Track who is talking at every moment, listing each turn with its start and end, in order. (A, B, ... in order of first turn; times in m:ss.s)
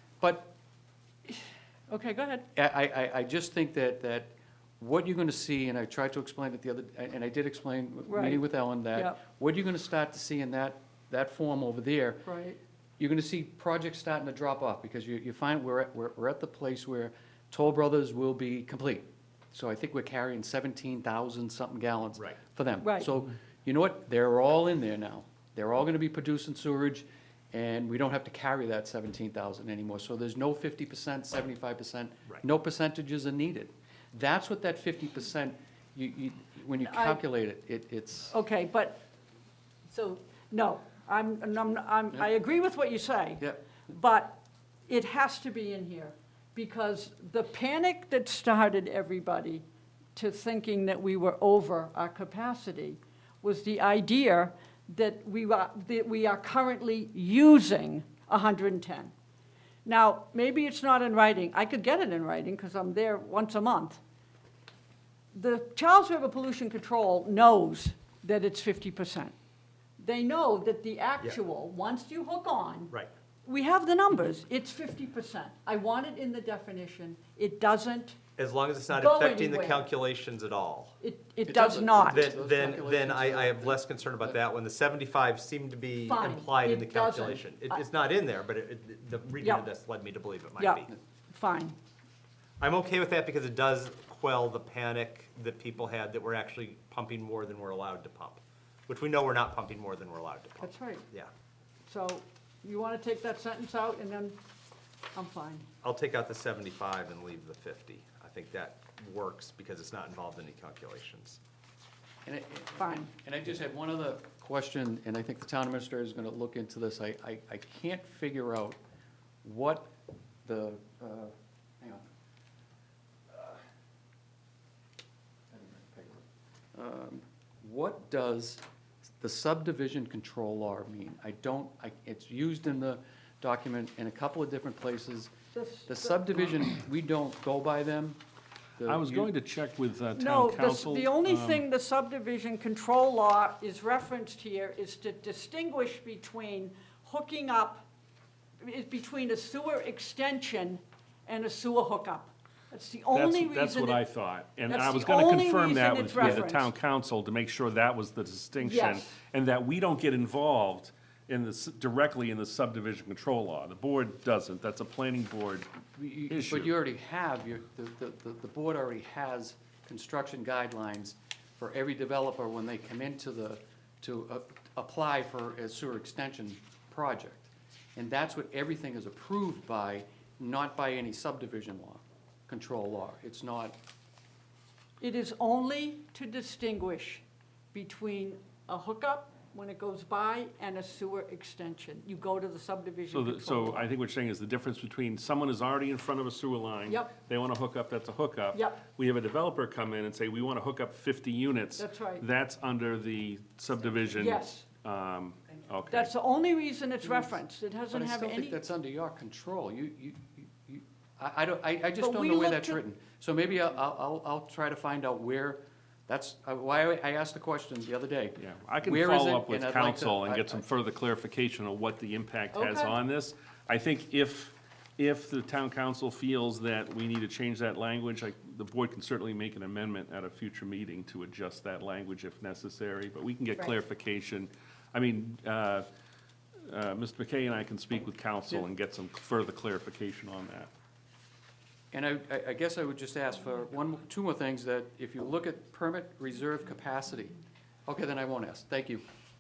0:00.2-0:00.5 A
0:01.9-0:02.5 B
0:02.6-0:12.3 A
0:08.1-0:09.2 B
0:12.3-0:12.6 B
0:13.0-0:38.4 A
0:22.8-0:23.1 B
0:36.8-0:37.2 B
0:38.3-0:39.0 B
0:39.9-0:49.6 B
0:43.4-0:43.7 A
0:50.2-0:59.1 B
0:59.8-1:04.0 B
1:05.3-1:09.3 B
1:10.0-1:12.9 B
1:13.4-1:18.2 B
1:18.4-1:21.0 C
1:18.9-1:19.9 B
1:21.0-1:22.4 B
1:21.5-1:24.4 A
1:22.0-1:30.9 C
1:26.0-1:27.8 B
1:29.4-1:29.7 B
1:30.6-1:31.8 B
1:32.6-1:41.3 C
1:40.6-1:41.1 B
1:41.9-1:44.4 B
1:45.2-1:45.7 B
1:45.8-1:51.4 C
1:52.3-1:58.8 A
1:52.8-1:53.1 B
1:59.4-1:59.9 A
2:00.4-2:02.1 A
2:03.3-2:03.6 A
2:05.5-2:08.6 A
2:09.2-2:15.3 A
2:15.5-2:16.4 B
2:15.9-2:18.2 A
2:18.8-2:19.3 A
2:18.8-2:21.6 D
2:20.2-2:27.8 B
2:28.6-2:34.0 B
2:33.1-2:45.7 D
2:34.7-2:36.7 B
2:38.6-2:39.2 B
2:46.0-3:03.8 A
2:46.3-2:46.7 D
3:05.0-3:13.9 B
3:13.1-3:26.1 D
3:16.9-3:17.1 B
3:18.5-3:18.8 B
3:21.8-3:22.2 B
3:24.1-3:24.7 B
3:25.9-3:28.6 B
3:27.0-3:27.4 A
3:27.9-3:40.6 A
3:32.0-3:32.8 B
3:38.4-3:55.9 D
3:42.5-3:43.0 B
3:56.7-4:00.7 D
4:01.9-4:09.0 A